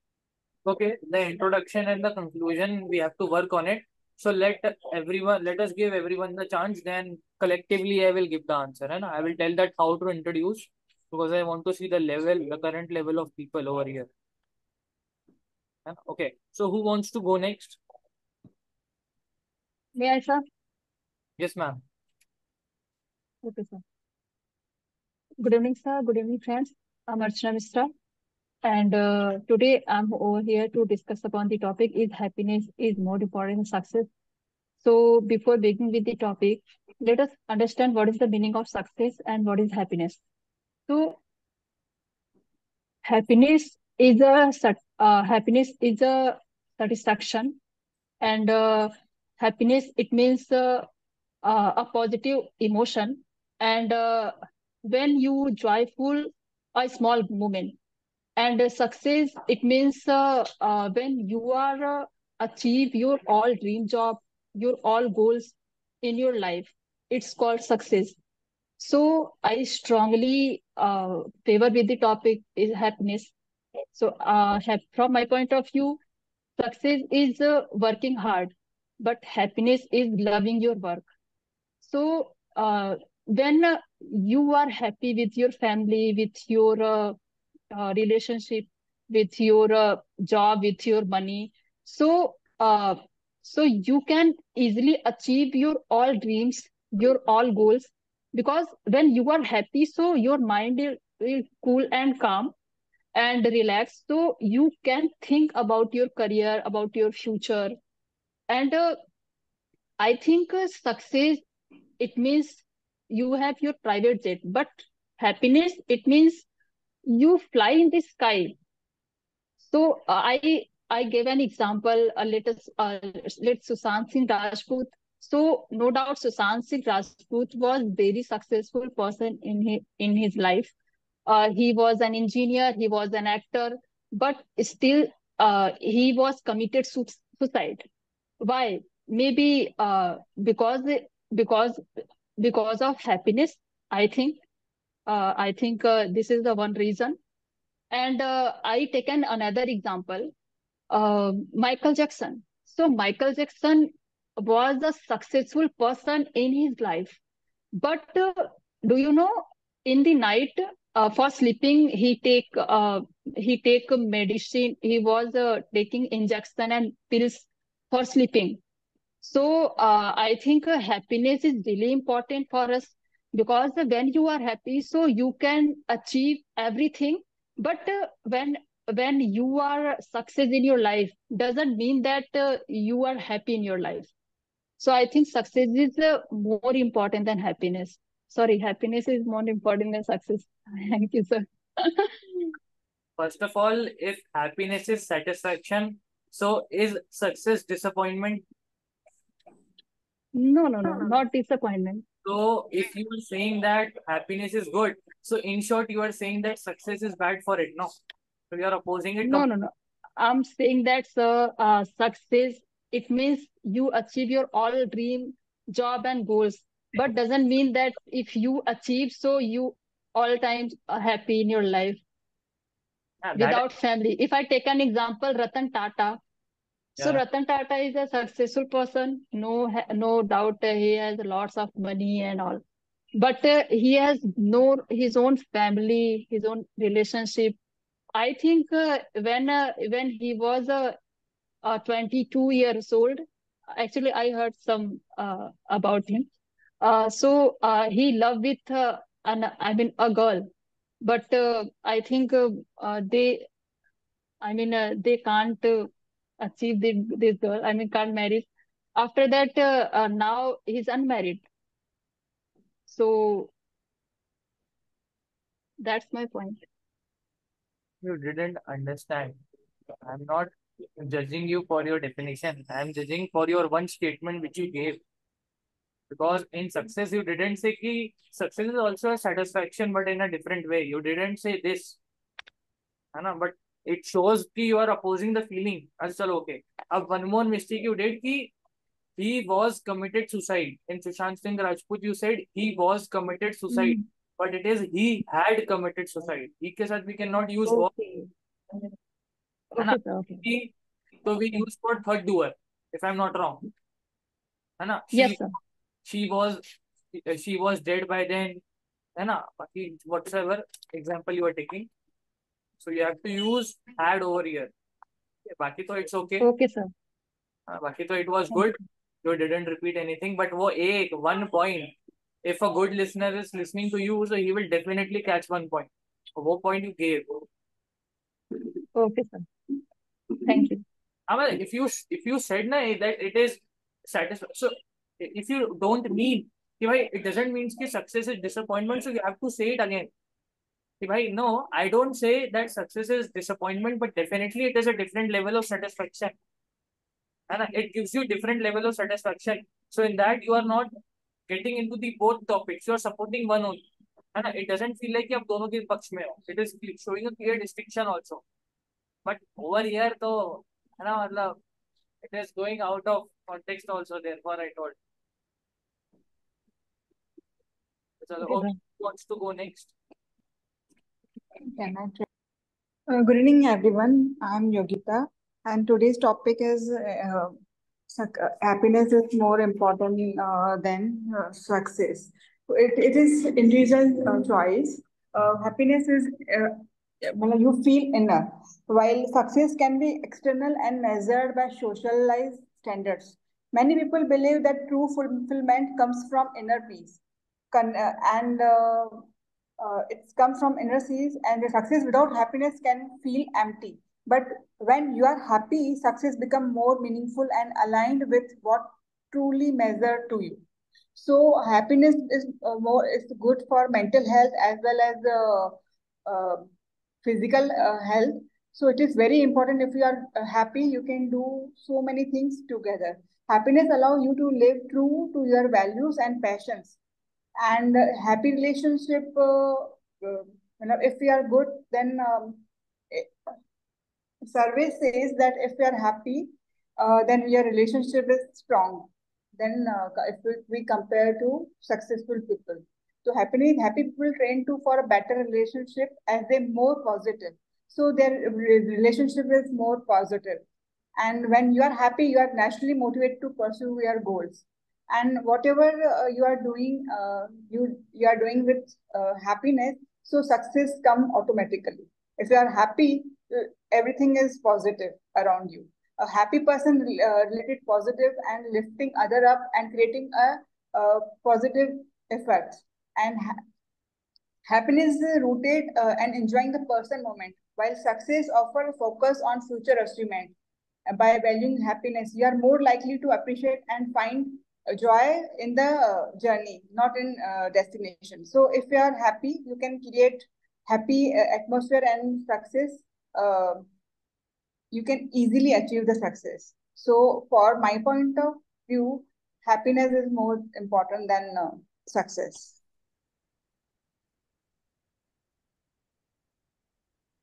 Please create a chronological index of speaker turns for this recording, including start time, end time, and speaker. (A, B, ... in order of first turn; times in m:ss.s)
0:00.7-0:14.1 A
0:15.9-0:17.8 A
0:20.0-0:20.4 B
0:21.4-0:21.8 A
0:23.4-0:23.8 B
0:25.4-0:27.9 B
0:28.6-0:34.1 B
0:34.8-0:40.2 B
0:40.9-0:41.2 B
0:43.0-0:47.6 B
0:48.2-0:50.9 B
0:51.4-0:57.8 B
0:58.4-1:08.2 B
1:08.8-1:13.3 B
1:13.9-1:16.0 B
1:16.6-1:21.0 B
1:21.8-1:27.2 B
1:27.7-1:42.5 B
1:43.2-1:47.8 B
1:48.5-1:49.0 B
1:50.0-1:51.4 B
1:52.0-1:56.4 B
1:57.1-1:58.6 B
1:59.6-2:10.7 B
2:11.3-2:17.9 B
2:18.4-2:24.4 B
2:25.1-2:27.2 B
2:27.9-2:30.3 B
2:30.9-2:37.2 B
2:37.8-2:48.6 B
2:49.2-3:04.1 B
3:04.8-3:12.6 B
3:13.2-3:18.4 A
3:20.4-3:22.0 B
3:22.2-3:27.9 A
3:28.5-3:29.5 A
3:29.2-3:42.0 B
3:43.2-3:43.6 A
3:43.4-3:46.2 B
3:47.0-3:52.6 B
3:53.2-3:57.6 B
3:58.2-4:01.0 B
4:01.6-4:06.3 B
4:06.8-4:10.5 B
4:11.0-4:13.5 B
4:14.4-4:21.4 B
4:22.9-4:23.5 B
4:25.8-4:26.6 B
4:28.0-4:29.4 A
4:30.0-4:35.0 A
4:36.1-4:42.0 A
4:43.2-4:48.5 A
4:49.2-4:57.9 A
4:53.7-4:54.0 B
4:57.6-4:58.3 B
4:59.7-5:00.4 B
4:59.8-5:00.7 A
5:01.2-5:03.7 A
5:04.8-5:05.4 A
5:05.1-5:05.6 B
5:06.0-5:06.6 A
5:07.1-5:08.6 A
5:09.2-5:11.9 A
5:12.8-5:14.7 A
5:15.5-5:16.5 A
5:16.4-5:16.9 B
5:17.7-5:21.9 A
5:22.4-5:27.5 A
5:28.9-5:29.5 B
5:30.4-5:30.8 B
5:31.3-5:40.1 A
5:41.0-5:46.3 A
5:47.5-5:50.9 A
5:51.5-5:53.8 A
5:54.4-5:58.4 A
5:59.3-6:01.6 A
6:02.2-6:05.0 A
6:08.2-6:09.9 A
6:08.4-6:08.8 B
6:11.7-6:12.3 C
6:13.1-6:17.5 C
6:18.1-6:37.2 C
6:37.7-6:39.3 C
6:39.8-6:50.6 C
6:51.2-6:56.7 C
6:57.2-7:07.0 C
7:07.6-7:13.4 C
7:14.5-7:30.6 C
7:31.2-7:53.6 C
7:54.7-8:00.6 C
8:01.1-8:13.9 C
8:14.9-8:22.8 C